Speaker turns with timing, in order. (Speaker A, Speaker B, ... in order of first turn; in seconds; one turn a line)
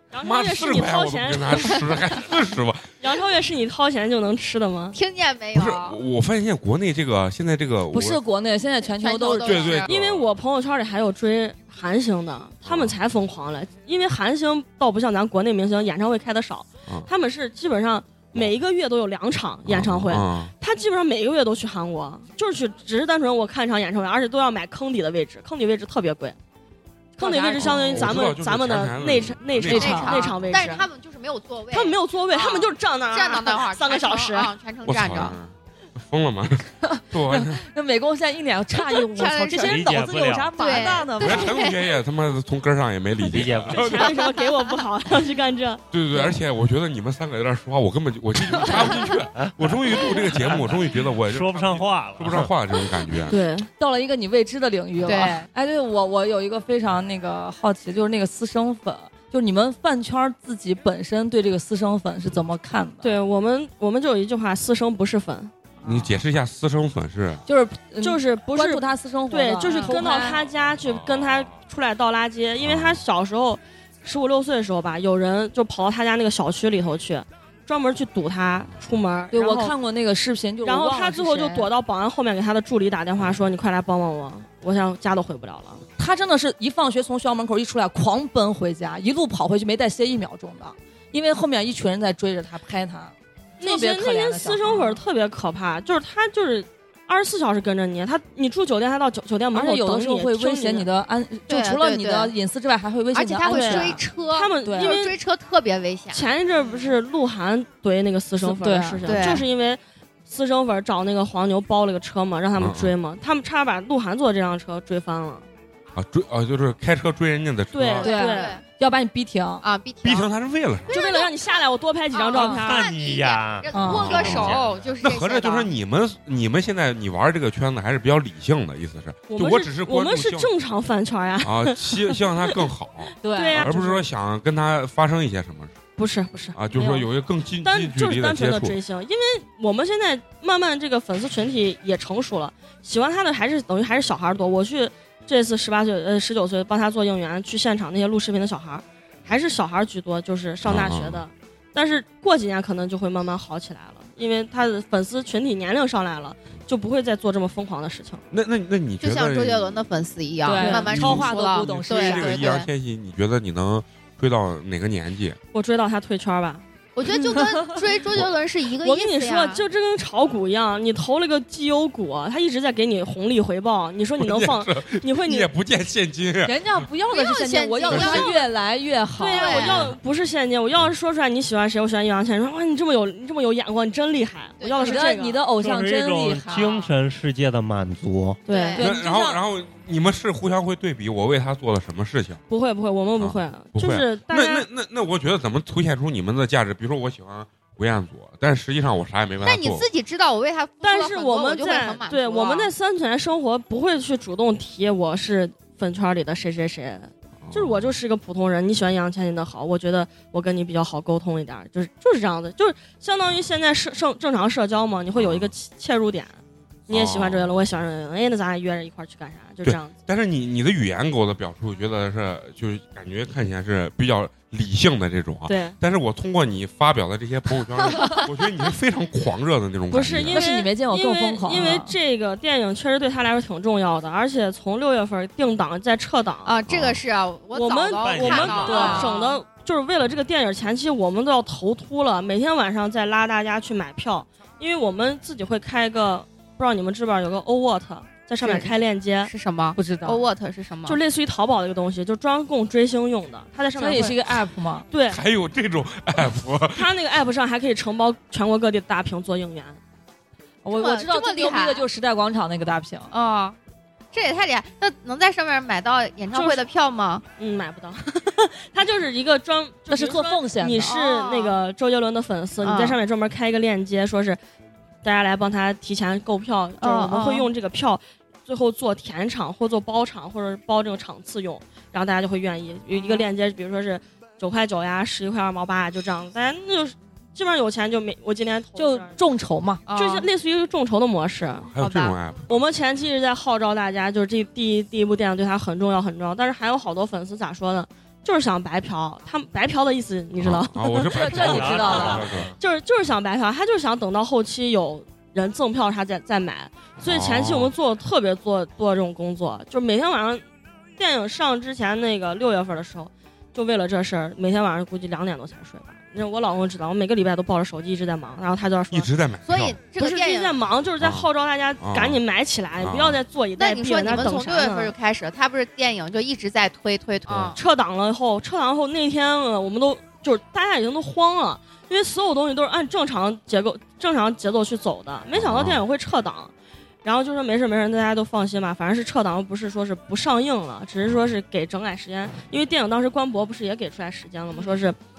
Speaker A: 0.1-2.0
Speaker B: 0.2-2.9
Speaker A: 3.0-5.0
Speaker C: 4.9-6.0
Speaker B: 5.5-8.2
Speaker D: 7.9-9.8
Speaker C: 8.9-9.9
Speaker B: 9.4-10.3
Speaker A: 9.9-26.4
Speaker B: 12.6-13.0
Speaker B: 19.6-20.5
Speaker A: 27.2-30.9
Speaker D: 27.2-27.9
Speaker B: 27.6-30.2
Speaker D: 29.6-30.3
Speaker C: 29.7-35.4
Speaker A: 31.7-34.5
Speaker B: 34.8-37.6
Speaker D: 36.8-41.6
Speaker C: 38.8-39.9
Speaker E: 39.6-40.9
Speaker C: 40.6-41.9
Speaker B: 41.2-44.1
Speaker E: 43.3-44.0
Speaker A: 43.7-46.2
Speaker C: 44.1-44.5
Speaker B: 45.9-53.4
Speaker E: 51.3-52.5
Speaker A: 53.3-53.7
Speaker D: 53.8-63.2
Speaker C: 55.0-55.4
Speaker A: 63.0-65.5
Speaker D: 65.8-66.2
Speaker B: 65.8-67.4
Speaker D: 67.5-70.4
Speaker A: 68.0-79.7
Speaker C: 69.7-70.0
Speaker B: 70.8-71.5
Speaker B: 72.6-73.0
Speaker D: 79.3-81.7
Speaker A: 80.6-85.8
Speaker D: 86.0-95.0
Speaker A: 93.6-100.9
Speaker D: 99.5-104.0
Speaker C: 101.5-102.3
Speaker C: 103.1-106.2
Speaker A: 103.5-105.2
Speaker D: 104.6-105.0
Speaker A: 106.1-115.4
Speaker D: 108.4-109.2
Speaker C: 109.0-109.5
Speaker B: 112.5-112.9
Speaker B: 115.9-118.1
Speaker A: 117.7-118.6
Speaker C: 118.0-118.6
Speaker D: 118.0-119.6
Speaker C: 119.6-120.3
Speaker B: 120.0-121.0
Speaker C: 120.8-125.7
Speaker A: 120.9-122.9
Speaker E: 122.4-124.8
Speaker D: 123.7-124.3
Speaker B: 124.0-130.5
Speaker A: 129.3-132.6
Speaker B: 131.4-135.8
Speaker D: 133.2-133.8
Speaker A: 133.3-134.0
Speaker A: 136.0-137.1
Speaker B: 136.5-138.8
Speaker A: 137.6-158.2
Speaker B: 150.6-151.2
Speaker B: 158.3-159.8
Speaker C: 159.0-162.7
Speaker D: 160.4-162.5
Speaker A: 160.6-161.3
Speaker B: 160.9-165.4
Speaker A: 165.5-166.6
Speaker C: 166.9-169.6
Speaker D: 167.0-167.8
Speaker A: 168.8-175.5
Speaker B: 174.2-176.8
Speaker D: 176.4-179.7
Speaker C: 177.1-178.5
Speaker B: 177.9-178.2
Speaker A: 177.9-178.3
Speaker A: 179.2-185.4
Speaker C: 179.3-179.9
Speaker B: 179.7-179.9
Speaker C: 184.6-185.1
Speaker D: 184.8-186.8
Speaker E: 185.5-188.4
Speaker C: 186.6-186.9
Speaker A: 188.5-188.8
Speaker C: 188.5-188.9
Speaker D: 188.7-189.4
Speaker B: 188.8-192.4
Speaker A: 192.5-194.7
Speaker B: 193.2-199.8
Speaker C: 199.4-202.7
Speaker A: 200.8-219.9
Speaker B: 207.4-208.0
Speaker B: 215.1-215.5
Speaker B: 216.9-217.6
Speaker B: 219.6-230.4
Speaker A: 225.5-225.8
Speaker A: 229.9-236.6
Speaker D: 230.3-231.9
Speaker C: 236.4-239.4
Speaker B: 236.7-237.0
Speaker A: 237.5-249.3
Speaker E: 238.0-239.0
Speaker D: 238.6-239.2
Speaker C: 248.4-251.0
Speaker D: 249.8-250.2
Speaker A: 250.8-254.2
Speaker D: 253.8-254.9
Speaker A: 254.9-255.2
Speaker B: 255.1-256.9
Speaker A: 256.7-259.8
Speaker D: 260.6-263.1
Speaker C: 260.7-261.9
Speaker C: 263.1-263.6
Speaker C: 264.1-267.2
Speaker A: 266.3-266.6
Speaker A: 267.4-274.4
Speaker D: 269.9-270.9
Speaker C: 270.8-271.6
Speaker C: 272.6-273.0
Speaker A: 275.0-289.2
Speaker C: 276.8-277.5
Speaker C: 282.9-283.3
Speaker D: 288.8-289.8
Speaker C: 289.9-290.3
Speaker A: 289.9-291.7
Speaker B: 291.7-292.6
Speaker C: 291.8-292.1
Speaker A: 292.5-310.4
Speaker B: 300.4-302.5
Speaker D: 301.0-302.2
Speaker E: 301.3-302.6
Speaker B: 307.0-307.7
Speaker A: 311.0-319.1
Speaker B: 318.9-319.8
Speaker C: 319.4-320.6
Speaker A: 319.9-324.9
Speaker B: 321.0-321.3
Speaker B: 321.8-322.2
Speaker B: 322.8-323.2
Speaker C: 323.6-327.6
Speaker B: 327.2-327.6
Speaker A: 327.6-336.5
Speaker B: 335.3-335.8
Speaker A: 337.0-345.0